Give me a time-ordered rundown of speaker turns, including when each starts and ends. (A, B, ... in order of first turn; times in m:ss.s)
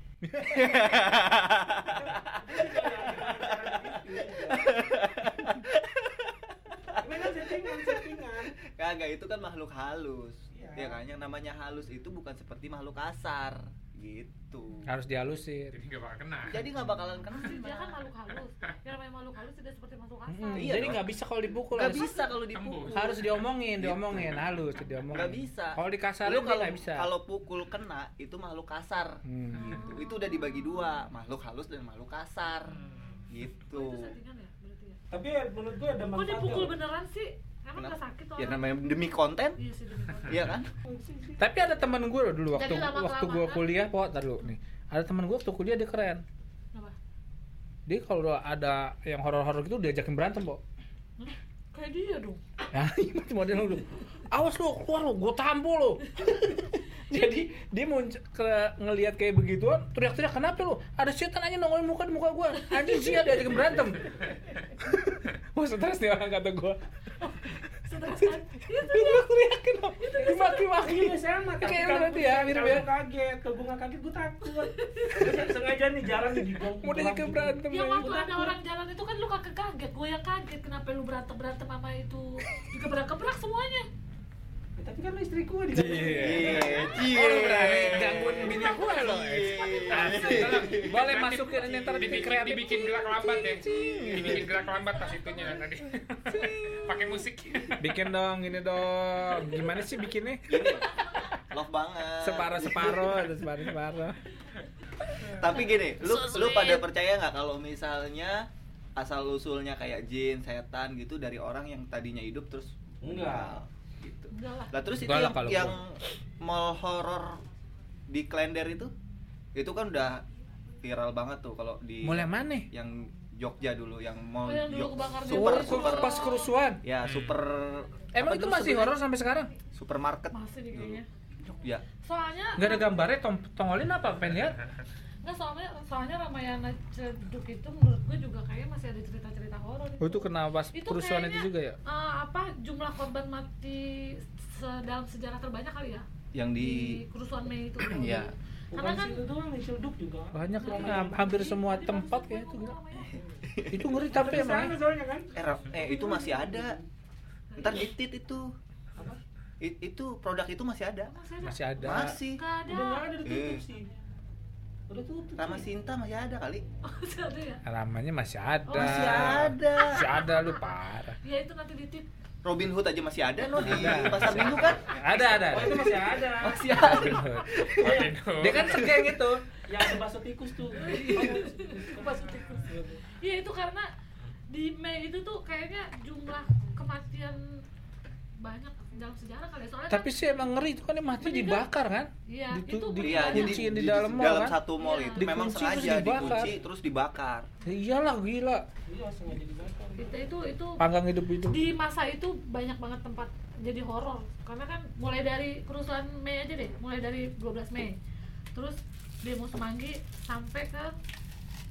0:00.2-0:00.8 A
0:00.4-0:08.0 B
0:01.9-0:04.9 C
0:07.0-0:08.6 C
0:08.6-0:14.9 B
0:10.5-0:11.0 C
0:14.9-0:15.8 A
0:15.7-0:16.7 D
0:16.5-0:18.0 B
0:17.3-0:20.9 E
0:20.3-0:22.1 A
0:20.5-0:21.1 B
0:21.7-0:23.1 B
0:22.5-0:23.4 D
0:22.9-0:27.1 A
0:23.8-0:24.4 B
0:25.1-0:34.2 B
0:29.2-0:29.8 A
0:29.7-0:30.7 E
0:32.7-0:33.2 D
0:33.7-0:35.0 E
0:35.1-0:36.8 C
0:36.1-0:38.6 E
0:37.8-0:39.6 B
0:39.6-0:40.6 E
0:40.3-0:40.7 B
0:40.3-0:40.6 D
0:40.8-0:41.5 C
0:41.4-0:46.2 A
0:42.5-0:43.7 E
0:47.9-0:50.6 A
0:51.2-0:52.4 E
0:52.7-1:06.8 A
0:57.1-0:57.4 E
1:02.8-1:03.2 E
1:07.2-1:09.3 E
1:08.3-1:12.9 A
1:10.0-1:10.7 E
1:10.8-1:18.6 C
1:14.7-1:15.6 E
1:16.8-1:18.3 A
1:17.7-1:23.9 E
1:24.8-1:27.0 C
1:25.7-1:34.5 A
1:26.2-1:31.0 B
1:30.7-1:37.8 D
1:35.2-1:35.5 E
1:36.3-1:36.8 A
1:37.8-1:40.6 A
1:40.5-1:43.2 B
1:42.2-1:44.2 A
1:42.8-1:43.2 C
1:45.4-1:57.4 B
1:46.3-1:46.8 E
1:53.0-1:53.6 C
1:54.3-1:54.9 E
1:55.0-1:55.8 A
1:58.1-1:58.9 B
1:59.6-2:00.2 B
2:00.8-2:06.3 B
2:02.0-2:02.7 A
2:04.4-2:06.5 E
2:05.3-2:06.8 A
2:06.8-2:09.0 B
2:07.0-2:07.4 D
2:08.1-2:09.5 A
2:09.7-2:11.8 B
2:10.3-2:11.1 E
2:12.0-2:13.0 E
2:12.6-2:14.6 A
2:15.2-2:26.1 E
2:20.0-2:21.8 A
2:26.3-2:27.0 B
2:26.6-2:29.2 E
2:27.8-2:28.3 B
2:28.7-2:31.5 C
2:30.3-2:32.8 A
2:30.6-2:33.2 E
2:33.1-2:34.4 B
2:33.1-2:36.9 C
2:33.7-2:34.8 A
2:35.3-2:36.8 B
2:37.5-2:37.9 E
2:37.6-2:38.5 B
2:39.0-2:39.2 C
2:39.6-2:41.1 B
2:41.1-2:43.2 E
2:41.4-2:42.2 A
2:41.8-2:42.4 B
2:42.7-2:43.9 C
2:43.2-2:43.6 B
2:44.9-2:45.7 C
2:45.4-2:46.6 B
2:46.8-2:47.6 E
2:47.7-2:51.2 A
2:48.7-2:50.6 E
2:48.7-2:50.0 B
2:51.2-2:52.1 E
2:52.4-2:55.0 B
2:53.5-2:55.9 E
2:53.6-2:56.0 A
2:55.5-2:57.0 C
2:56.3-2:58.1 B
2:56.7-2:57.6 A
2:57.8-2:58.1 C
2:57.8-2:59.0 D
2:58.3-2:59.4 A
2:59.6-3:03.0 C
3:00.8-3:02.5 E
3:03.1-3:03.9 E
3:04.5-3:07.6 E
3:08.4-3:10.2 E
3:09.9-3:14.6 A
3:11.2-3:11.7 E
3:12.3-3:13.6 E
3:13.0-3:17.5 B
3:14.8-3:15.3 E
3:15.2-3:16.5 A
3:16.1-3:16.4 C
3:17.6-3:18.7 A
3:18.9-3:20.3 C
3:20.0-3:20.8 E
3:20.8-3:21.6 A
3:21.5-3:28.0 E
3:28.6-3:30.9 E